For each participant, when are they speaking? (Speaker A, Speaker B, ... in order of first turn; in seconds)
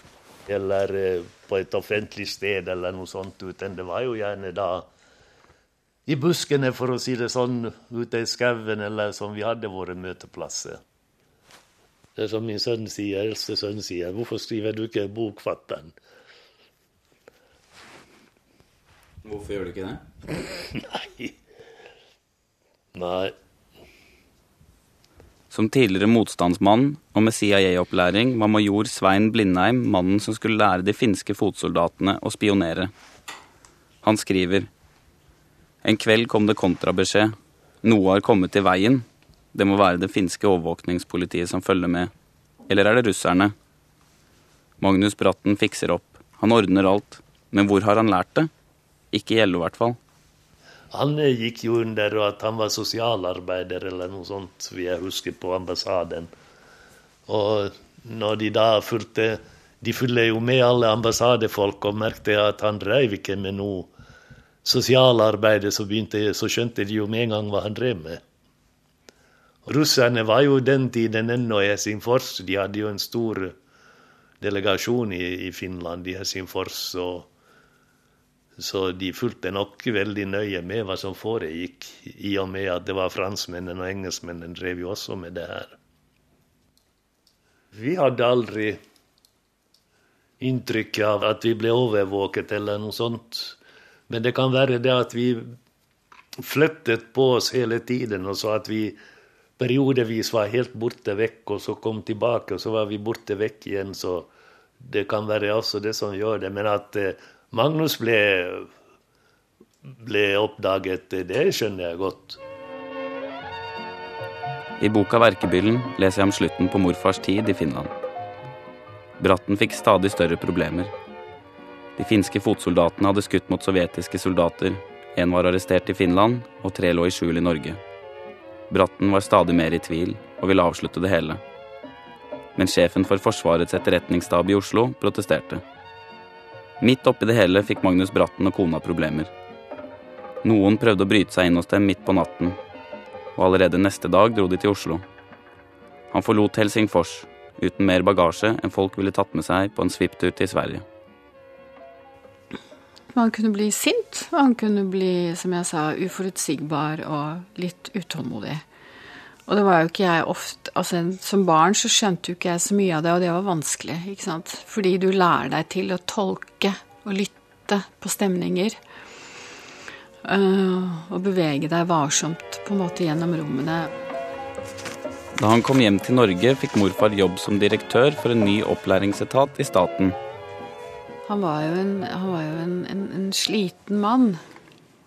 Speaker A: 0.5-4.9, 6.1-10.8, 12.2-15.9, 20.7-21.3, 22.9-23.3, 50.9-56.3, 57.3-63.9, 64.7-68.2, 69.7-73.5, 74.4-77.3, 78.6-85.8, 87.8-88.8, 90.4-93.6, 94.1-95.5, 96.4-99.0, 99.6-104.3, 104.8-108.7, 109.9-112.4
Speaker B: 19.2-20.0, 25.5-32.9, 34.0-34.7, 35.8-42.1, 42.7-43.5, 44.8-48.5, 49.1-50.0, 114.8-117.9, 119.2-120.9, 122.0-127.8, 128.7-131.4, 132.6-135.6, 136.8-139.3, 140.4-142.6, 143.4-145.0, 146.1-150.8, 175.4-180.2
Speaker C: 153.1-158.6, 159.5-168.8, 170.2-173.9, 181.3-184.4